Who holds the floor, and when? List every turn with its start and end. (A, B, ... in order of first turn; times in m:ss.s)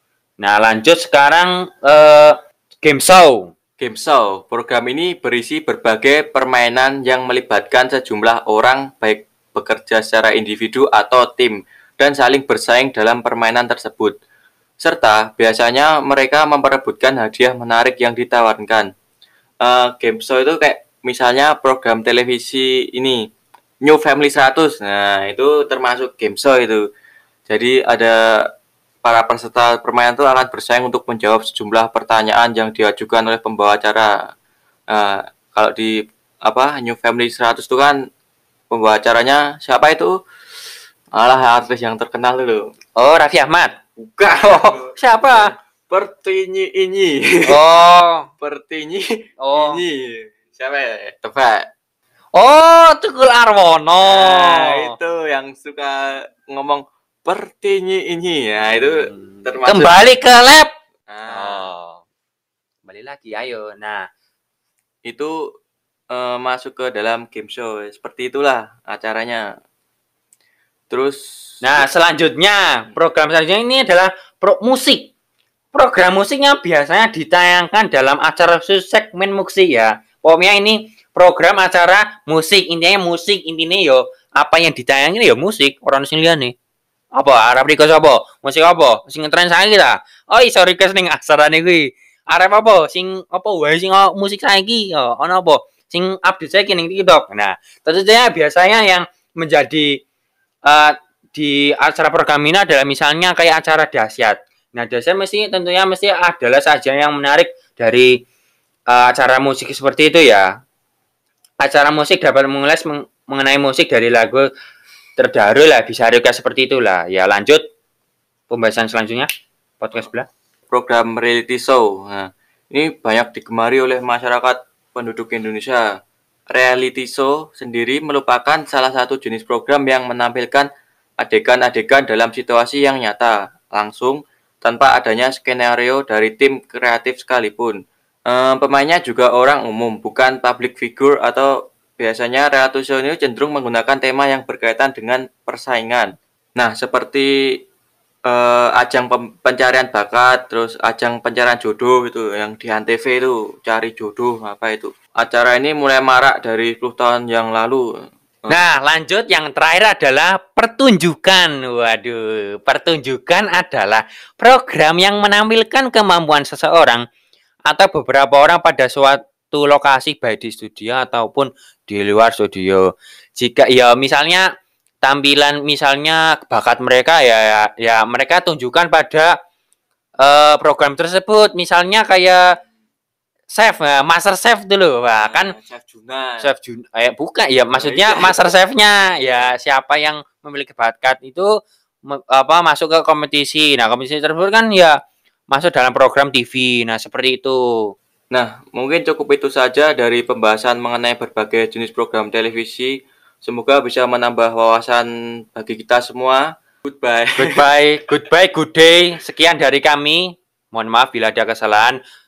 0:00.4-0:03.5 A
0:03.8-0:14.2 B
0:14.8-0:18.9 B
0:19.6-0:23.2 B
0:23.8-0:26.8 B
0:27.5-0:28.5 B
0:29.0-0:34.1 B
0:34.9-0:38.0 B
0:38.7-0:40.2 B
0:41.1-0:42.7 B
0:43.0-0:45.5 A
0:44.0-0:47.6 B
0:47.4-0:48.3 A
0:48.4-0:51.7 B
0:49.4-0:49.8 A
0:52.3-0:55.0 A
0:54.0-1:00.0 B
0:58.7-1:00.7 A
1:01.1-1:01.7 B
1:01.3-1:02.0 A
1:02.8-1:04.0 A
1:05.0-1:05.5 B
1:06.1-1:09.4 B
1:10.9-1:11.8 B
1:11.6-1:15.1 A
1:15.7-1:26.5 A
1:27.1-1:40.0 A
1:40.6-1:48.1 A
1:48.9-1:50.5 A
1:51.6-1:54.5 A
1:55.2-1:57.6 A
1:58.5-1:59.3 A
1:59.8-2:00.3 A
2:00.7-2:05.8 B
2:06.5-2:10.7 B
2:11.2-2:27.6 B
2:28.3-2:37.8 B
2:38.5-2:47.0 A
2:47.7-2:54.5 A
2:55.0-2:59.3 A
3:00.2-3:02.6 A
3:03.5-3:05.5 A
3:05.2-3:06.5 B
3:06.4-3:11.5 A
3:07.8-3:08.6 B
3:09.1-3:09.5 B
3:12.1-3:15.0 A
3:15.5-3:17.9 A
3:18.3-3:27.6 B
3:27.4-3:32.0 A